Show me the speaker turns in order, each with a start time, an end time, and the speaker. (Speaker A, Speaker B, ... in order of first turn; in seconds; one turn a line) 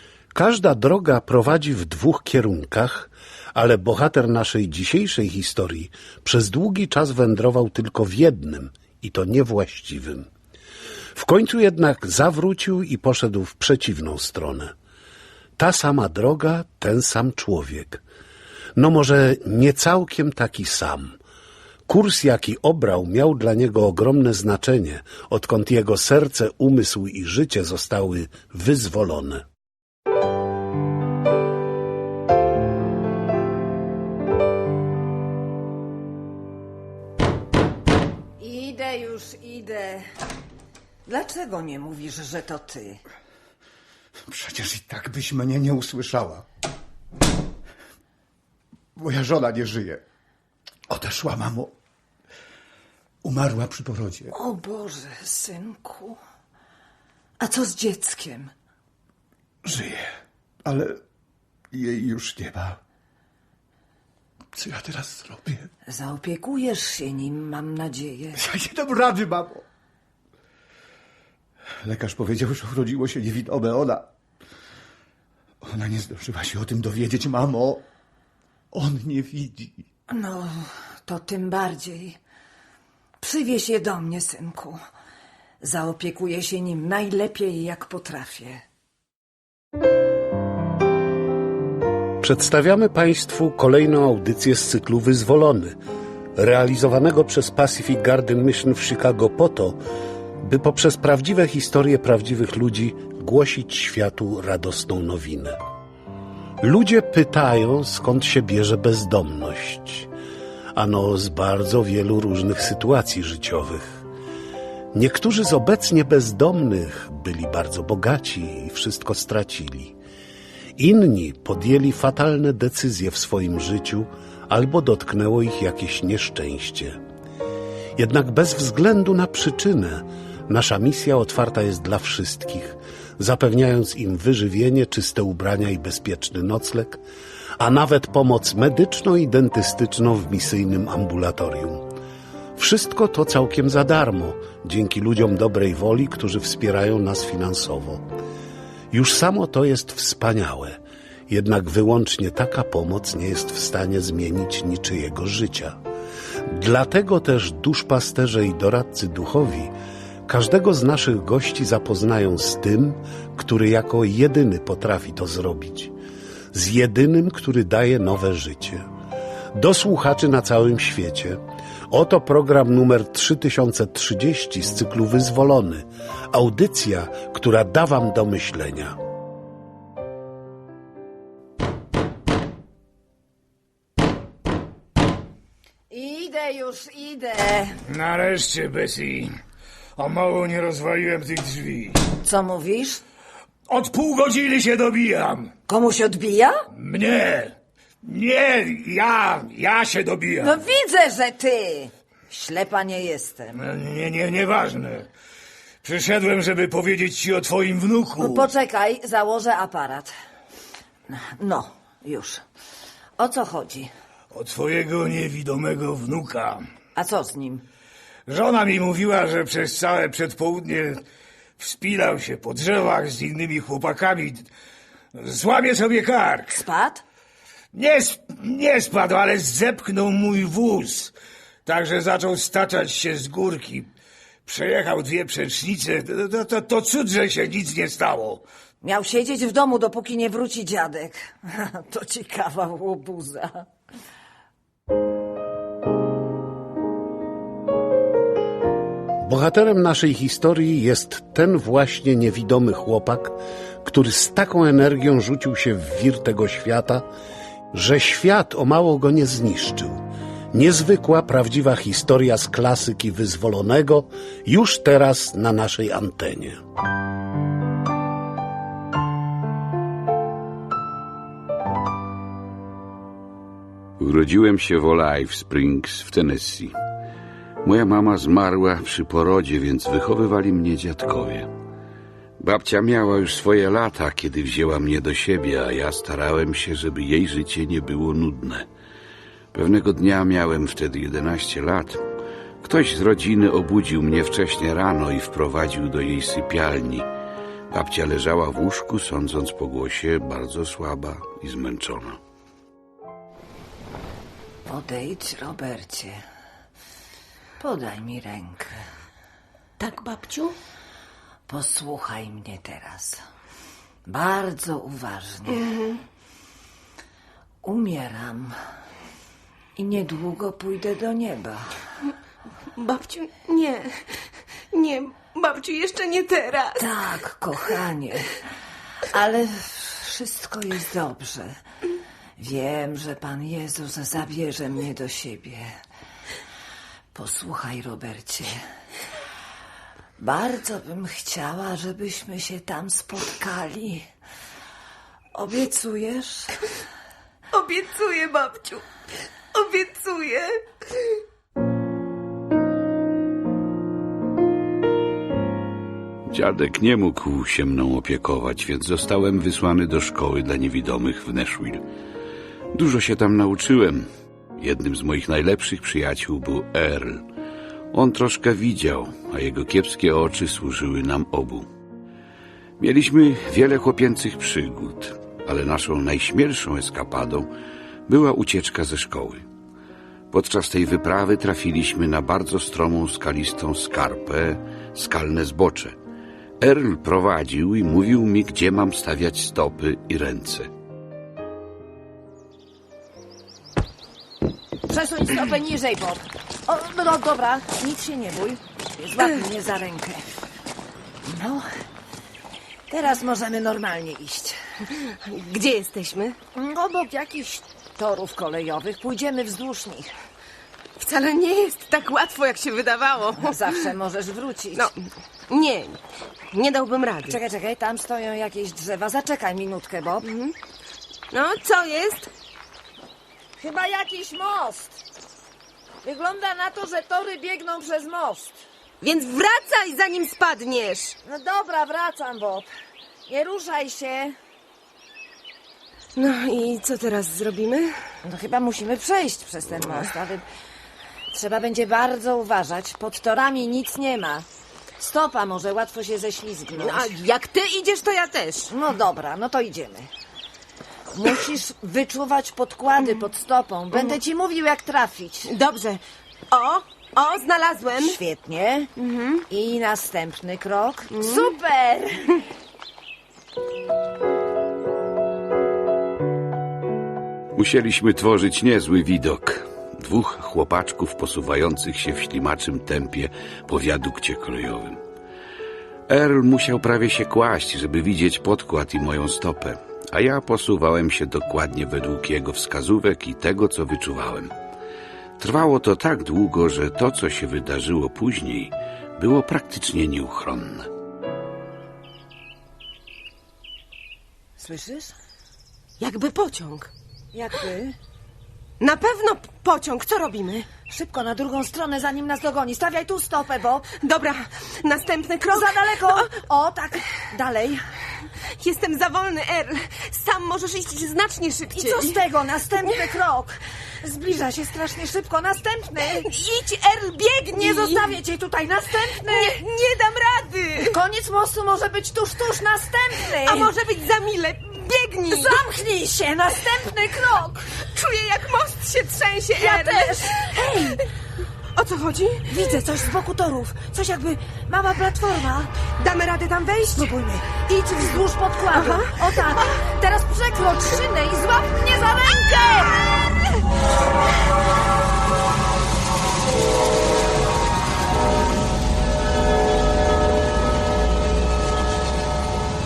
Speaker A: 0.3-10.3
Speaker A: 11.2-14.7
Speaker A: 15.6-18.0
Speaker A: 18.8-21.2
Speaker A: 21.9-29.4
Speaker B: 38.4-40.1
Speaker B: 41.1-43.0
Speaker C: 44.3-46.5
Speaker C: 49.0-50.0
Speaker C: 50.9-51.7
Speaker C: 53.2-54.4
Speaker B: 54.3-56.2
Speaker B: 57.4-58.5
Speaker C: 59.6-60.1
Speaker C: 60.6-61.0
Speaker C: 61.7-62.8
Speaker C: 64.5-65.7
Speaker B: 65.9-68.4
Speaker C: 68.3-69.7
Speaker C: 71.8-74.1
Speaker C: 75.6-77.8
Speaker C: 78.7-79.8
Speaker B: 80.1-82.2
Speaker B: 83.2-84.8
Speaker B: 85.6-88.6
Speaker A: 92.2-95.8
Speaker A: 96.4-99.8
Speaker A: 100.4-105.6
Speaker A: 106.6-110.1
Speaker A: 110.8-114.0
Speaker A: 114.9-120.0
Speaker A: 120.8-127.0
Speaker A: 128.0-137.0
Speaker A: 137.6-141.9
Speaker A: 142.6-148.0
Speaker A: 148.9-150.8
Speaker A: 151.3-155.8
Speaker A: 156.5-159.7
Speaker A: 160.3-165.9
Speaker A: 166.5-168.8
Speaker A: 169.5-179.0
Speaker B: 185.9-187.8
Speaker D: 187.9-189.3
Speaker D: 190.0-192.0
Speaker B: 192.2-193.0
Speaker D: 193.7-195.5
Speaker B: 195.7-196.7
Speaker D: 196.7-200.6
Speaker B: 200.4-203.6
Speaker D: 203.6-205.1
Speaker D: 205.8-208.5
Speaker B: 208.2-210.1
Speaker B: 211.1-212.4
Speaker B: 213.2-213.9
Speaker D: 214.3-216.7
Speaker B: 216.9-217.6
Speaker D: 218.3-221.0
Speaker D: 221.6-224.5
Speaker D: 225.1-226.6
Speaker B: 226.5-227.0
Speaker D: 227.7-231.1
Speaker D: 231.7-233.9
Speaker D: 234.4-238.4
Speaker B: 238.8-243.7
Speaker A: 249.2-257.1
Speaker A: 257.7-260.0
Speaker A: 260.5-266.6
Speaker E: 274.0-276.7
Speaker E: 277.6-281.5
Speaker E: 282.4-288.7
Speaker E: 289.5-292.0
Speaker E: 292.6-297.1
Speaker E: 297.7-302.2
Speaker B: 304.7-306.2
Speaker B: 307.6-308.8
Speaker F: 309.8-310.6
Speaker B: 311.5-313.2
Speaker B: 314.1-315.7
Speaker F: 315.6-316.0
Speaker B: 317.6-318.6
Speaker B: 319.8-321.8
Speaker F: 322.8-327.0
Speaker B: 326.8-328.4
Speaker B: 329.1-331.6
Speaker B: 332.4-335.7
Speaker B: 337.1-338.6
Speaker B: 340.2-344.1
Speaker B: 345.3-346.6
Speaker F: 347.5-348.9
Speaker F: 349.5-351.1
Speaker E: 356.3-361.8
Speaker E: 362.7-364.1
Speaker E: 364.6-367.2
Speaker E: 367.9-371.7
Speaker E: 372.8-377.5
Speaker E: 378.1-379.4
Speaker E: 380.3-386.0
Speaker E: 386.6-390.7
Speaker B: 394.9-400.2
Speaker B: 401.2-401.7
Speaker B: 402.9-404.6
Speaker F: 405.2-406.4
Speaker B: 406.6-410.1
Speaker F: 411.0-413.8
Speaker B: 413.4-414.9
Speaker F: 414.8-416.0
Speaker F: 416.5-417.4
Speaker B: 417.3-420.3
Speaker F: 420.2-420.5
Speaker F: 421.3-422.3
Speaker B: 423.6-425.0
Speaker B: 426.0-428.6
Speaker F: 429.0-431.2
Speaker B: 431.2-432.7
Speaker B: 433.3-434.4
Speaker F: 436.2-438.0
Speaker B: 438.2-440.4
Speaker B: 441.3-444.5
Speaker B: 445.0-447.1
Speaker F: 446.8-448.7
Speaker B: 448.7-450.1
Speaker B: 451.1-455.5
Speaker F: 453.0-453.3
Speaker F: 453.9-454.2
Speaker F: 455.5-458.2
Speaker B: 458.0-458.9
Speaker F: 459.0-459.5
Speaker B: 459.5-462.4
Speaker F: 461.1-461.6
Speaker E: 467.6-475.0
Speaker E: 476.1-484.5
Speaker E: 485.4-490.9
Speaker B: 494.6-495.1
Speaker F: 496.0-496.9
Speaker B: 497.3-498.0
Speaker F: 498.8-500.7
Speaker B: 500.9-503.9
Speaker F: 504.0-506.4
Speaker B: 505.5-507.8
Speaker F: 508.4-512.2
Speaker B: 511.7-516.3
Speaker F: 512.8-513.2
Speaker F: 516.0-518.2
Speaker B: 517.5-519.6
Speaker F: 519.2-521.0
Speaker B: 520.8-523.7
Speaker F: 523.3-525.6
Speaker B: 525.3-527.7
Speaker F: 527.8-531.1
Speaker B: 529.5-531.0
Speaker F: 531.8-532.8
Speaker B: 532.5-535.8
Speaker F: 536.0-537.1
Speaker B: 537.0-543.0
Speaker F: 538.7-539.8